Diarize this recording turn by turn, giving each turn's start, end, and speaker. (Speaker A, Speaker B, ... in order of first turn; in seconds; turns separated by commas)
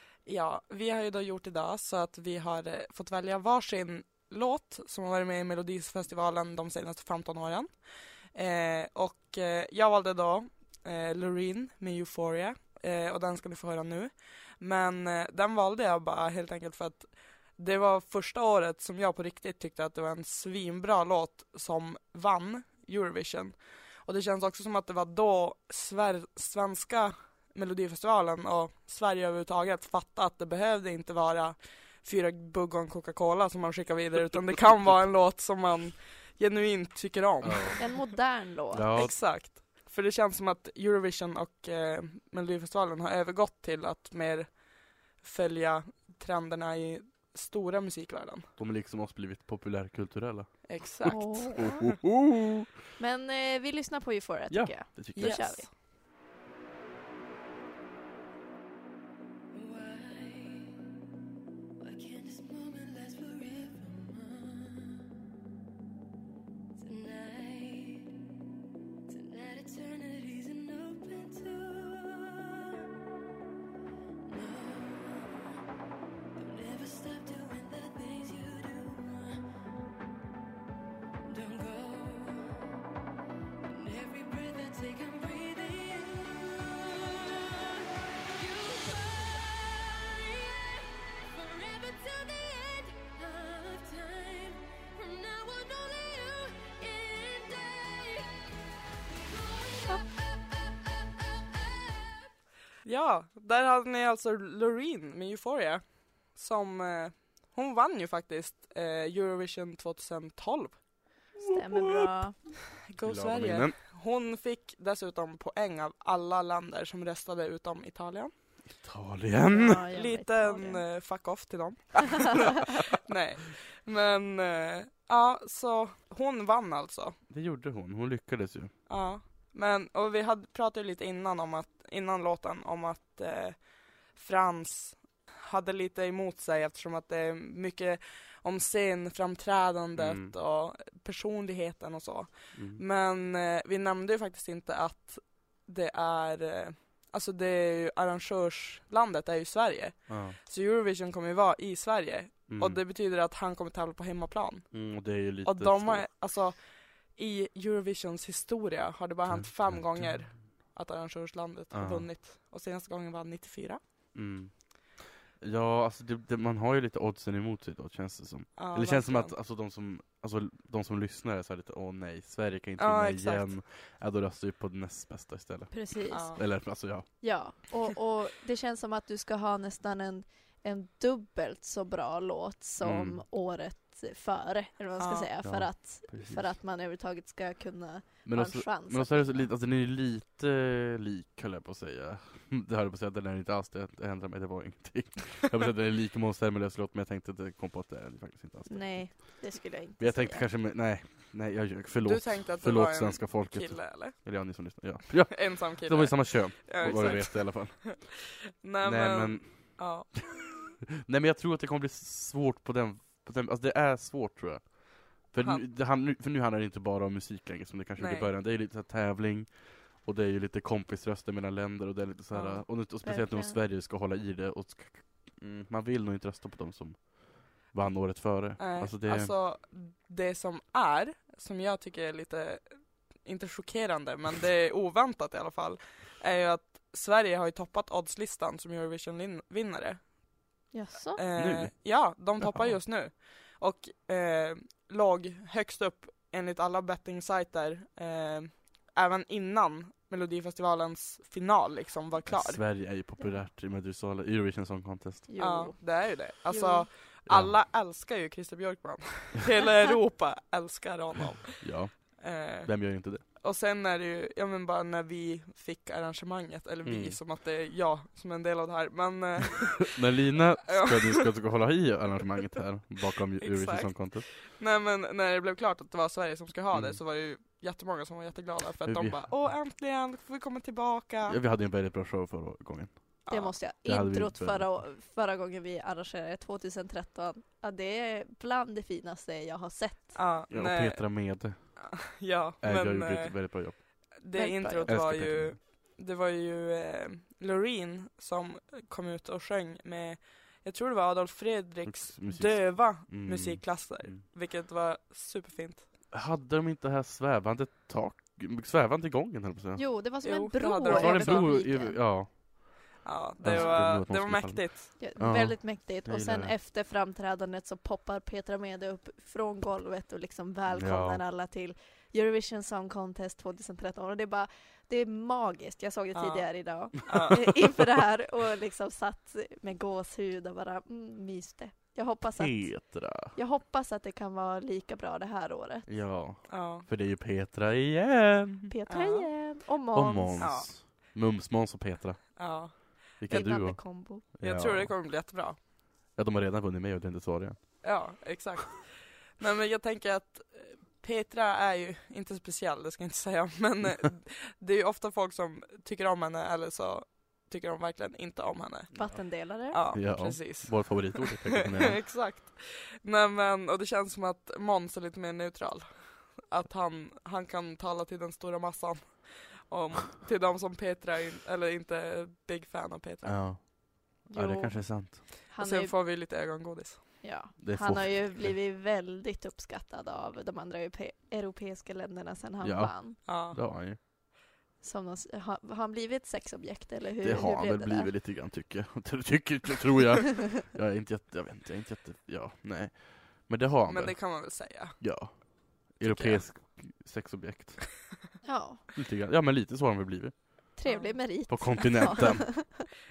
Speaker A: 0.2-37.9, Speaker B: 37.4-37.8, Speaker C: 37.8-39.0, Speaker B: 38.7-39.2, Speaker A: 38.9-48.5, Speaker B: 48.6-52.7, Speaker A: 50.7-51.7, Speaker C: 51.1-52.0, Speaker C: 53.0-55.7, Speaker B: 54.5-55.5, Speaker A: 55.1-55.7, Speaker D: 59.5-60.7, Speaker D: 61.8-65.0, Speaker D: 66.8-68.1, Speaker D: 69.1-72.5, Speaker D: 74.2-75.4, Speaker D: 76.3-79.4, Speaker D: 81.2-82.7, Speaker D: 83.6-87.7, Speaker D: 88.3-98.4, Speaker D: 99.1-100.5, Speaker D: 101.5-102.3, Speaker A: 102.8-110.8, Speaker B: 111.4-112.1, Speaker C: 111.5-112.3, Speaker A: 112.9-118.3, Speaker B: 113.0-113.7, Speaker B: 118.7-119.8, Speaker C: 119.5-120.8, Speaker A: 119.9-127.2, Speaker B: 127.3-128.7, Speaker A: 128.9-154.9, Speaker B: 140.0-140.3, Speaker B: 142.5-142.8, Speaker B: 150.1-150.4, Speaker B: 152.5-152.8, Speaker B: 154.7-156.1, Speaker A: 155.4-163.8, Speaker B: 159.3-160.2, Speaker B: 161.7-162.1, Speaker B: 164.1-164.8, Speaker B: 165.4-177.1, Speaker A: 168.6-169.3, Speaker A: 172.8-173.5, Speaker C: 175.7-189.5, Speaker A: 176.1-176.4, Speaker B: 182.8-183.2, Speaker A: 185.0-185.3, Speaker B: 185.4-186.5, Speaker B: 188.2-199.4, Speaker C: 198.7-200.5, Speaker B: 200.0-208.0, Speaker A: 202.0-204.2, Speaker A: 205.3-208.0, Speaker A: 208.6-210.6, Speaker B: 208.8-209.9, Speaker B: 211.0-229.3, Speaker A: 218.0-218.3, Speaker A: 222.3-222.6, Speaker C: 223.0-223.6, Speaker A: 228.6-240.2, Speaker C: 240.7-241.2, Speaker A: 241.2-252.7, Speaker B: 241.3-241.8, Speaker B: 242.4-242.8, Speaker B: 252.2-255.3, Speaker C: 255.3-256.9, Speaker A: 255.4-270.0, Speaker B: 257.3-257.6, Speaker B: 261.6-263.2, Speaker B: 266.8-267.2, Speaker B: 269.9-274.3, Speaker A: 270.7-271.3, Speaker A: 273.4-281.4, Speaker B: 276.7-277.0, Speaker B: 278.9-279.2, Speaker B: 281.2-282.9, Speaker A: 283.2-283.5, Speaker C: 283.3-290.2, Speaker B: 283.8-284.8, Speaker A: 290.1-305.9, Speaker B: 290.5-292.0, Speaker B: 292.6-294.1, Speaker C: 294.3-294.9, Speaker B: 294.9-295.6, Speaker B: 301.8-304.2, Speaker B: 306.1-309.9, Speaker C: 309.8-312.0, Speaker A: 310.2-311.5, Speaker B: 310.8-312.8, Speaker A: 313.0-314.9, Speaker B: 313.4-316.5, Speaker C: 313.5-313.9, Speaker C: 315.0-335.9, Speaker B: 320.7-321.2, Speaker A: 326.1-327.4, Speaker B: 332.4-333.3, Speaker B: 335.9-338.7, Speaker A: 336.5-336.9, Speaker C: 338.7-340.5, Speaker A: 338.9-339.3, Speaker B: 339.9-344.9, Speaker A: 340.4-340.7, Speaker A: 342.4-343.1, Speaker C: 343.3-344.2, Speaker A: 344.4-345.6, Speaker B: 346.1-347.8, Speaker A: 347.8-358.9, Speaker C: 358.9-359.8, Speaker A: 359.7-373.4, Speaker B: 359.9-362.1, Speaker B: 373.2-375.2, Speaker C: 374.3-375.9, Speaker A: 375.6-377.1, Speaker C: 377.2-383.2, Speaker B: 377.6-378.5, Speaker B: 382.6-384.0, Speaker A: 383.2-383.6, Speaker C: 384.8-388.1, Speaker B: 387.2-398.0, Speaker A: 393.9-395.4, Speaker A: 396.0-396.4, Speaker C: 398.4-398.8, Speaker B: 398.9-400.6, Speaker C: 400.8-402.8, Speaker A: 400.8-401.2, Speaker B: 401.5-402.5